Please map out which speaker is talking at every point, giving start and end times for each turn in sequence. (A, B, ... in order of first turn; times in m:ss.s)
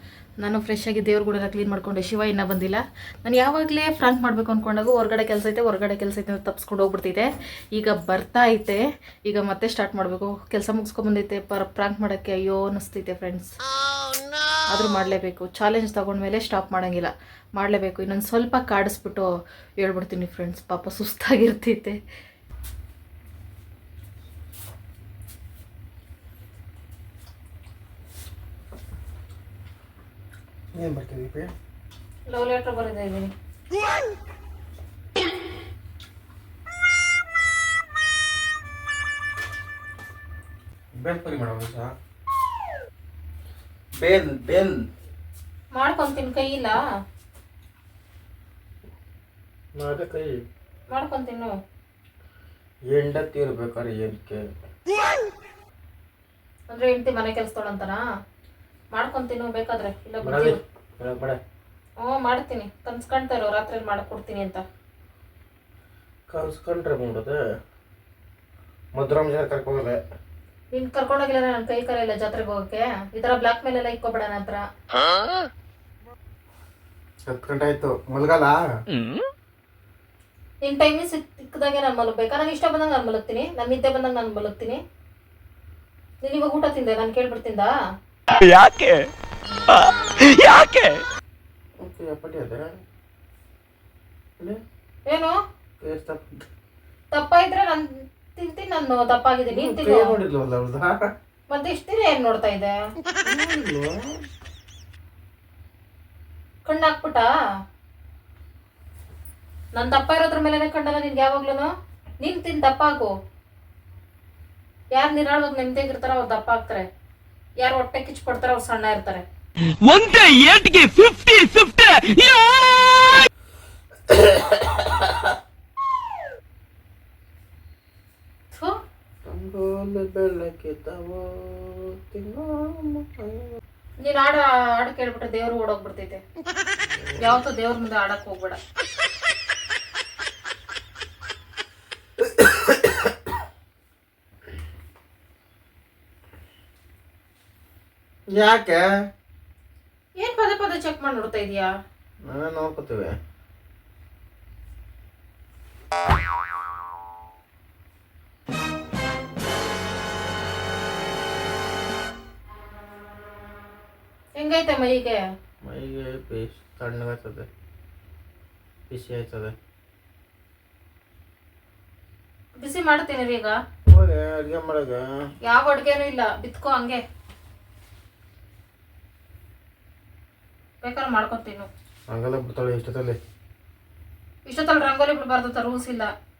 0:00.4-0:13.6 A
0:14.7-0:22.0 A
0:30.8-0:31.5 B
0:32.3-0:33.3 A
0:40.9-0:41.9 B
0:44.0-0:44.8 B
0:45.7-0:46.8 A
0:49.8-0:50.4 B
0:50.9-0:51.5 A
0:52.9-0:54.4 B
0:56.7-0:58.0 A
0:58.9-1:00.6 A
1:00.2-1:01.4 B
1:02.0-1:04.6 A
1:06.3-1:07.4 B
1:08.9-1:10.0 B
1:10.7-1:14.6 A
1:17.3-1:18.6 B
1:18.9-1:19.2 C
1:20.6-1:24.8 A
1:26.2-1:27.7 A
1:28.3-1:29.1 C
1:29.7-1:31.0 C
1:31.8-1:32.7 B
1:35.1-1:35.4 A
1:35.8-1:36.5 B
1:37.1-1:40.2 A
1:39.5-1:41.0 B
1:41.5-1:42.8 A
1:43.2-1:44.2 B
1:46.7-1:47.3 A
1:49.8-1:51.7 A
1:52.2-1:53.1 A
1:55.0-1:56.9 A
1:57.6-1:59.2 A
1:59.8-2:03.3 C
2:04.1-2:05.2 B
2:09.2-2:13.6 B
2:14.0-2:16.2 A
2:16.8-2:17.4 B
2:17.2-2:18.6 A
2:22.4-2:23.1 B
2:28.3-2:28.9 B
2:30.2-2:31.7 A
2:32.2-2:33.1 B
2:44.4-2:45.2 A
2:45.6-2:47.5 B
2:48.9-2:49.5 B
2:52.6-2:53.6 A
2:53.9-2:55.0 B
2:55.4-2:57.0 A
3:00.8-3:01.7 A
3:02.1-3:03.2 B
3:04.5-3:06.1 A